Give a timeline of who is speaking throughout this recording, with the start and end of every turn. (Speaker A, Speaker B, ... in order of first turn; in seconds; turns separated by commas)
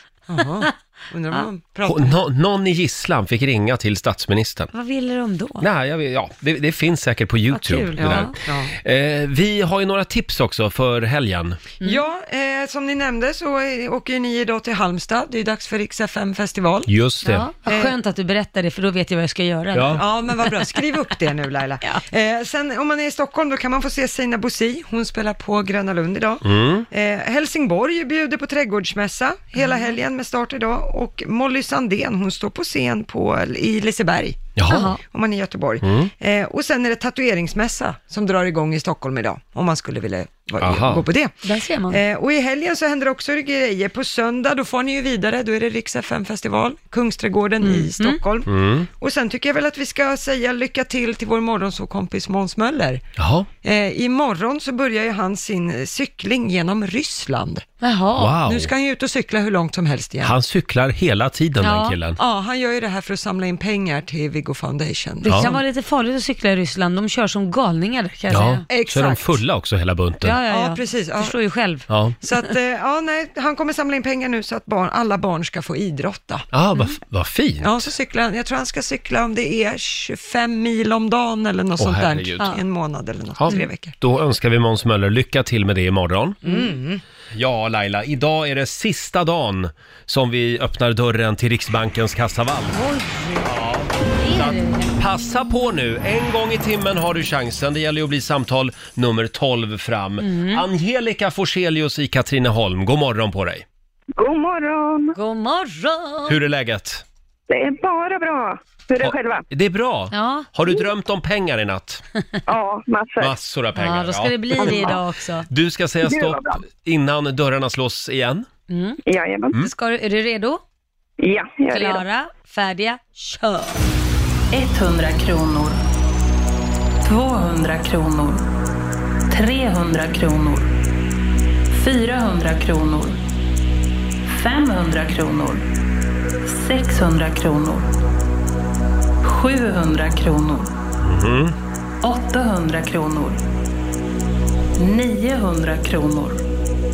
Speaker A: 0.3-2.1, Speaker B: 0.4-0.7, Speaker C: 1.8-4.7, Speaker B: 4.7-5.7, Speaker C: 5.6-11.6, Speaker B: 7.5-8.3, Speaker A: 7.9-8.7, Speaker A: 11.8-16.9, Speaker C: 16.9-17.5, Speaker B: 17.2-20.0, Speaker A: 17.6-17.9, Speaker C: 19.7-20.0, Speaker A: 19.9-41.4, Speaker C: 26.4-26.9, Speaker B: 29.6-29.9, Speaker C: 34.5-34.9, Speaker B: 34.7-35.0, Speaker C: 35.8-36.1, Speaker C: 40.6-41.0, Speaker B: 41.4-42.0, Speaker A: 41.9-53.0, Speaker B: 47.6-48.2, Speaker C: 48.4-48.9, Speaker C: 53.2-53.5, Speaker A: 53.6-57.7, Speaker B: 57.8-58.4, Speaker C: 58.2-58.7, Speaker A: 58.4-60.3, Speaker C: 60.2-62.2, Speaker B: 61.6-62.0, Speaker A: 62.2-65.5, Speaker C: 65.2-65.6, Speaker B: 65.2-68.7, Speaker C: 68.3-70.4, Speaker A: 68.7-69.2, Speaker B: 70.2-71.9, Speaker A: 70.5-71.3, Speaker C: 71.9-72.2, Speaker A: 72.2-76.5, Speaker C: 76.5-77.9, Speaker A: 77.6-83.9, Speaker C: 81.8-82.5, Speaker C: 83.4-86.4, Speaker A: 86.4-87.0, Speaker C: 87.3-92.8, Speaker B: 92.7-93.5, Speaker C: 93.4-103.6, Speaker B: 94.2-94.9, Speaker B: 100.2-100.7, Speaker D: 104.2-105.2, Speaker B: 105.2-106.4, Speaker C: 106.3-107.0, Speaker D: 107.5-109.5, Speaker C: 109.0-112.0, Speaker B: 110.1-110.5, Speaker D: 112.5-113.3, Speaker C: 113.2-115.0, Speaker B: 113.7-115.5, Speaker D: 114.6-115.0, Speaker C: 115.5-118.5, Speaker D: 116.0-116.6, Speaker B: 118.7-119.0, Speaker D: 119.0-119.5, Speaker B: 119.5-120.6, Speaker D: 121.2-122.0, Speaker B: 121.7-123.8, Speaker E: 124.5-125.8, Speaker E: 127.0-128.5, Speaker E: 129.3-130.7, Speaker E: 131.7-133.2, Speaker E: 134.2-135.7, Speaker E: 136.4-137.9, Speaker E: 139.2-140.7, Speaker C: 141.0-141.5, Speaker E: 142.0-143.4, Speaker E: 144.8-146.4